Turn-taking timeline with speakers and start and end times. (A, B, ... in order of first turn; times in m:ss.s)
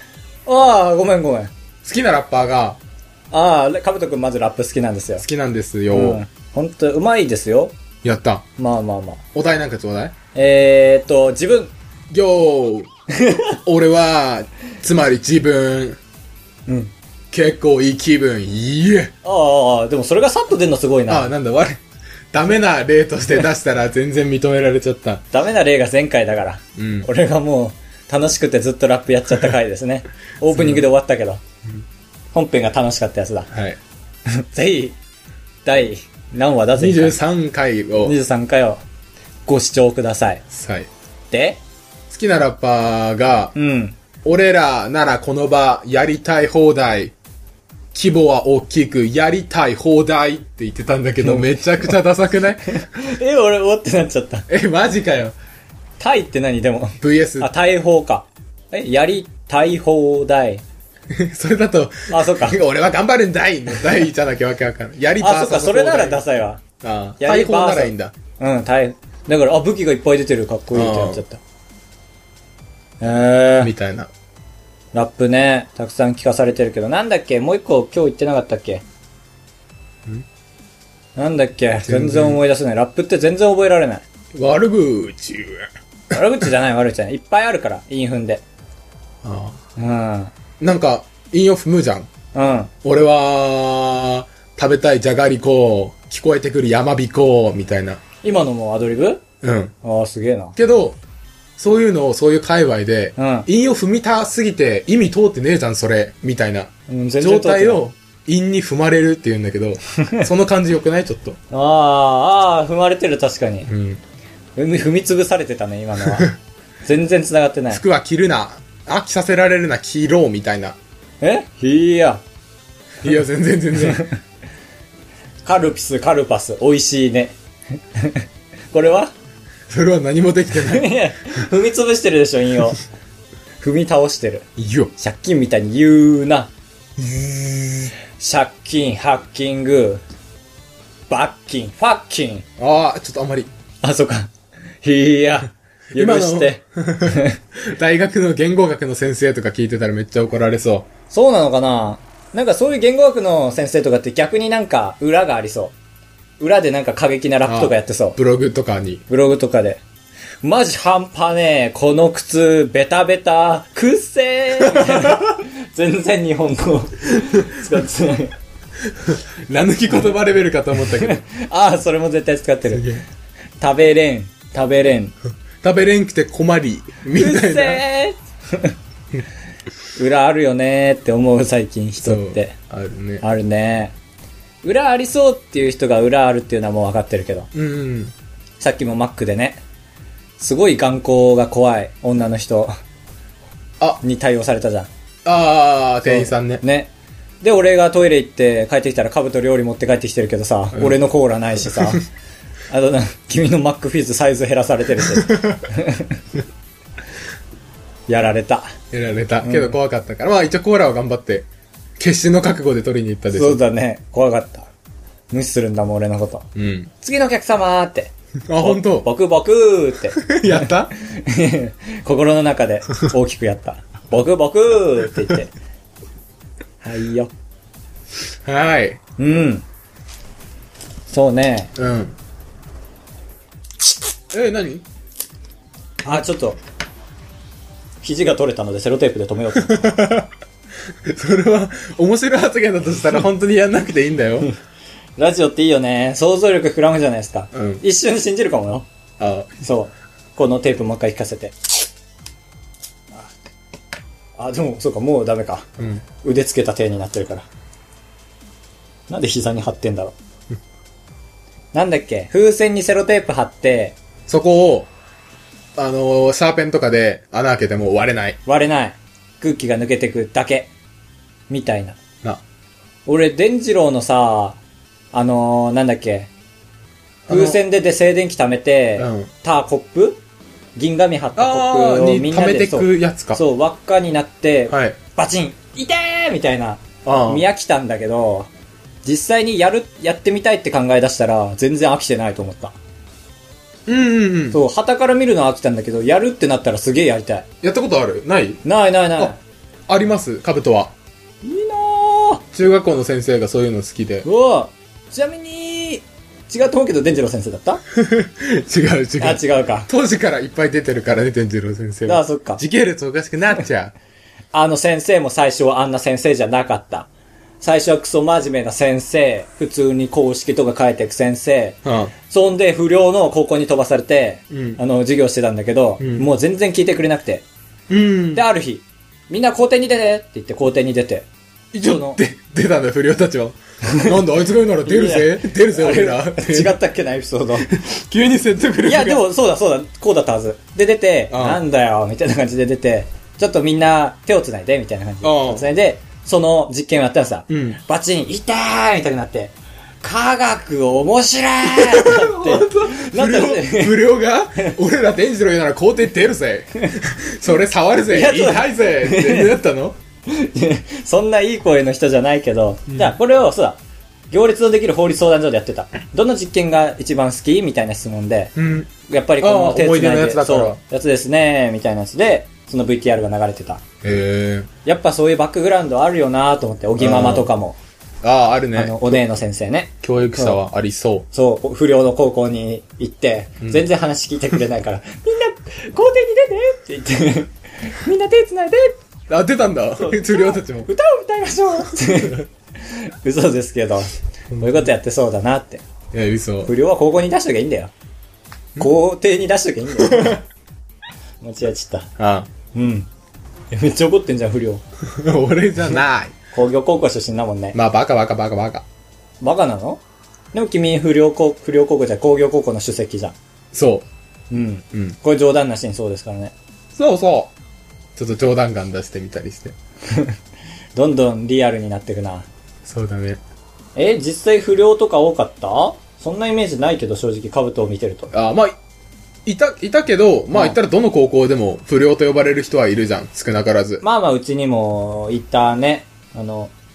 0:00.5-0:01.5 A
0:01.8-0:02.8 B
0:03.3-0:05.2 A
0:05.2-0:06.2 B
0:05.9-0:07.7 A
0:08.0-0:08.5 B
0:08.6-0:09.2 A
0:09.3-0:10.1 B
0:10.4-0:11.7 A
0:12.1-0:12.9 B
0:13.1-0:13.6 A
0:13.6-0:16.0 B
0:16.7-0:16.9 A
0:17.3-0:19.1 B
0:19.2-0:21.3 A
0:21.1-0:21.8 B
0:22.3-0:25.2 B
0:25.3-0:31.4 A
0:26.8-0:27.1 B
0:30.5-0:30.9 B
0:32.3-0:33.5 A
0:33.5-0:33.8 B
0:34.3-0:35.0 A
0:35.6-0:37.2 A
0:36.8-0:38.2 B
0:38.0-0:38.8 A
0:39.5-0:40.4 A
0:40.5-0:40.9 B
0:41.3-0:41.6 A
0:42.1-0:43.5 B
0:43.6-0:44.0 A
0:44.2-0:47.2 B
0:47.9-0:52.9 B
0:51.2-0:51.6 A
0:52.7-0:54.5 A
0:54.5-0:55.4 B
0:56.0-1:00.6 A
0:57.0-0:57.5 B
1:01.1-1:06.2 B
1:02.1-1:02.6 A
1:05.2-1:06.6 A
1:06.8-1:08.1 B
1:07.2-1:11.4 A
1:10.7-1:11.2 B
1:13.0-1:13.7 A
1:13.6-1:14.1 B
1:14.9-1:18.8 A
1:21.2-1:24.0 A
1:21.8-1:22.4 B
1:24.3-1:25.7 B
1:26.1-1:28.4 A
1:29.2-1:29.6 B
1:29.8-1:30.4 A
1:30.6-1:32.1 B
1:32.3-1:32.7 A
1:32.8-1:38.0 B
1:38.2-1:39.2 A
1:39.4-1:39.7 B
1:39.8-1:40.6 A
1:40.6-1:41.0 B
1:41.6-1:51.4 B
1:43.2-1:43.5 A
1:46.9-1:47.8 A
1:50.0-1:50.3 A
1:51.5-1:53.7 A
1:53.7-1:54.0 B
1:54.6-1:56.3 A
1:56.8-1:57.8 A
1:57.7-2:00.8 B
2:01.2-2:02.2 A
2:03.0-2:04.1 B
2:03.8-2:04.1 A
2:05.4-2:07.4 A
2:08.0-2:09.1 A
2:09.7-2:10.9 B
2:10.6-2:12.8 A
2:13.6-2:16.5 A
2:14.6-2:14.9 B
2:17.0-2:17.9 B
2:18.2-2:20.0 A
2:21.1-2:22.5 A
2:22.6-2:23.5 B
2:23.8-2:24.3 A
2:24.8-2:27.4 A
2:26.0-2:30.9 B
2:31.1-2:35.7 A
2:36.4-2:38.2 A
2:37.5-2:39.0 B
2:39.1-2:39.8 A
2:40.4-2:48.4 A
2:44.6-2:45.2 B
2:48.9-2:51.2 B
2:51.0-2:53.0 A
2:52.7-2:53.0 B
2:53.6-2:55.2 A
2:55.6-2:57.8 B
2:57.2-2:58.8 A
3:00.0-3:02.6 A
3:02.0-3:03.2 B
3:03.2-3:04.0 A
3:04.6-3:07.5 A
3:07.5-3:08.1 B
3:08.6-3:09.6 A
3:10.4-3:12.7 A
3:14.0-3:14.9 A
3:15.2-3:16.6 B
3:16.1-3:16.9 A
3:17.4-3:22.0 A
3:21.7-3:22.0 B
3:22.7-3:26.2 A
3:25.0-3:25.6 B
3:28.1-3:28.7 A
3:28.9-3:33.6 B
3:29.4-3:29.8 A
3:33.3-3:34.7 A
3:35.3-3:36.5 A
3:36.6-3:36.9 B
3:37.0-3:45.5 A
3:38.5-3:39.1 B
3:40.2-3:40.9 B
3:46.8-3:47.3 A
3:48.4-3:49.0 B
3:49.2-3:49.6 A
3:51.1-3:51.7 A
3:51.8-3:52.2 B
3:54.3-3:54.8 B
3:56.0-3:56.6 A
3:58.0-3:59.9 A
3:59.6-4:00.3 B
4:01.0-4:04.5 B
4:05.2-4:08.9 A
4:07.5-4:07.8 B
4:09.2-4:09.6 B
4:09.6-4:11.6 A
4:14.4-4:15.7 A
4:15.8-4:16.0 B
4:16.2-4:17.5 A
4:19.1-4:20.2 A
4:21.7-4:24.0 A
4:24.3-4:24.9 B
4:25.8-4:28.4 B
4:28.5-4:30.7 A
4:31.5-4:32.0 A
4:33.1-4:34.6 A
4:35.1-4:36.3 A
4:37.3-4:37.6 B
4:37.3-4:40.2 A
4:39.0-4:39.3 B
4:40.8-4:48.5 A
4:41.4-4:43.4 B
4:44.7-4:45.0 B
4:47.0-4:47.4 B
4:49.0-4:52.8 A
4:53.9-4:54.6 B
4:54.5-4:57.5 A
4:57.6-4:58.6 B
4:58.6-4:59.4 A
4:59.9-5:00.9 B
5:01.4-5:02.4 A
5:02.5-5:04.3 B
5:04.2-5:07.8 A
5:07.9-5:13.9 B
5:09.2-5:09.9 A
5:12.1-5:12.6 A
5:14.5-5:17.1 A
5:17.6-5:27.5 A
5:21.8-5:22.1 B
5:24.5-5:24.8 B
5:26.0-5:26.3 B
5:27.9-5:28.4 B
5:28.4-5:31.3 A
5:31.7-5:36.8 B
5:31.8-5:32.2 A
5:34.8-5:37.7 A
5:37.7-5:39.2 B
5:38.8-5:54.0 A
5:41.3-5:41.6 B
5:45.2-5:45.7 B
5:47.5-5:47.8 B
5:51.7-6:00.0 B
5:58.1-5:59.6 A
6:00.3-6:03.8 A
6:02.9-6:03.2 B
6:04.3-6:08.5 A
6:08.6-6:10.8 B
6:09.1-6:13.8 A
6:14.0-6:14.7 B
6:14.8-6:17.8 A
6:17.0-6:17.5 B
6:18.2-6:19.2 B
6:18.8-6:20.6 A
6:20.0-6:21.3 B
6:21.3-6:29.0 A
6:29.3-6:30.9 B
6:30.0-6:35.8 A
6:34.5-6:34.9 B
6:36.1-6:36.7 B
6:36.7-6:37.9 A
6:38.8-6:40.4 A
6:40.0-6:40.4 B
6:41.4-6:42.1 A
6:42.2-6:42.5 B
6:42.7-6:43.1 A
6:43.7-6:44.8 A
6:45.1-6:46.4 B
6:46.5-6:47.8 A
6:47.7-6:48.8 B
6:49.4-6:50.0 A
6:50.5-6:53.4 A
6:53.7-6:54.1 B
6:54.5-6:56.5 A
6:57.0-6:57.5 B
6:58.2-6:59.8 B
7:00.1-7:00.4 A
7:01.0-7:02.5 A
7:02.8-7:03.4 B
7:04.0-7:08.3 A
7:08.3-7:08.8 B
7:09.4-7:14.0 B
7:10.5-7:10.8 A
7:14.0-7:16.7 A